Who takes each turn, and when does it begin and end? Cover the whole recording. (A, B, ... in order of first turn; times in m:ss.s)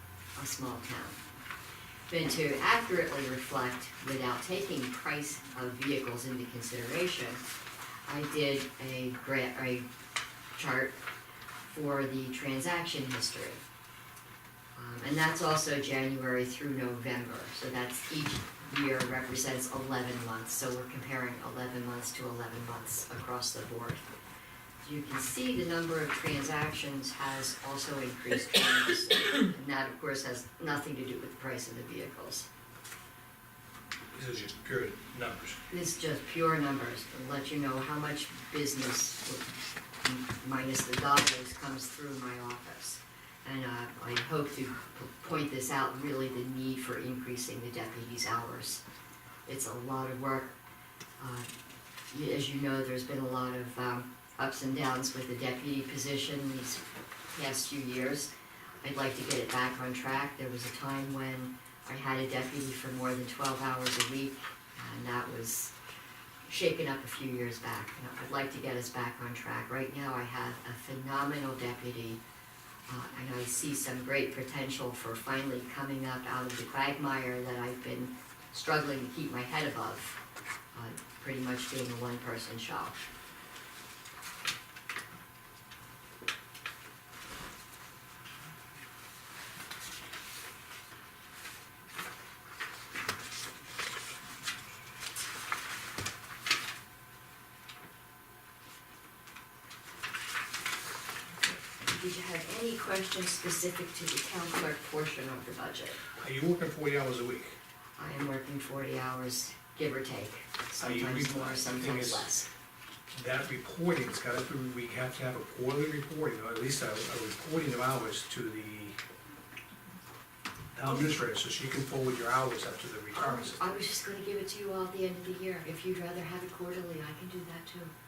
0:00.4-0:01.2 A
0:02.1-0:07.4 A
0:08.1-0:09.8 A
0:10.6-0:11.0 A
0:11.6-0:13.6 A
0:14.7-0:24.1 A
0:24.8-0:32.5 A
0:34.1-0:35.6 B
0:35.7-0:39.4 A
0:40.0-0:48.8 A
0:49.5-0:50.5 A
0:51.2-0:51.4 A
0:52.1-0:56.8 A
0:57.3-0:58.3 A
0:58.8-1:05.7 A
1:06.4-1:12.2 A
1:12.9-1:20.2 A
1:20.7-1:23.0 A
1:41.8-1:46.0 A
1:46.2-1:47.6 B
1:48.0-1:52.5 A
1:50.8-1:52.3 B
1:53.1-1:59.0 B
2:00.7-2:03.6 B
2:03.1-2:07.9 A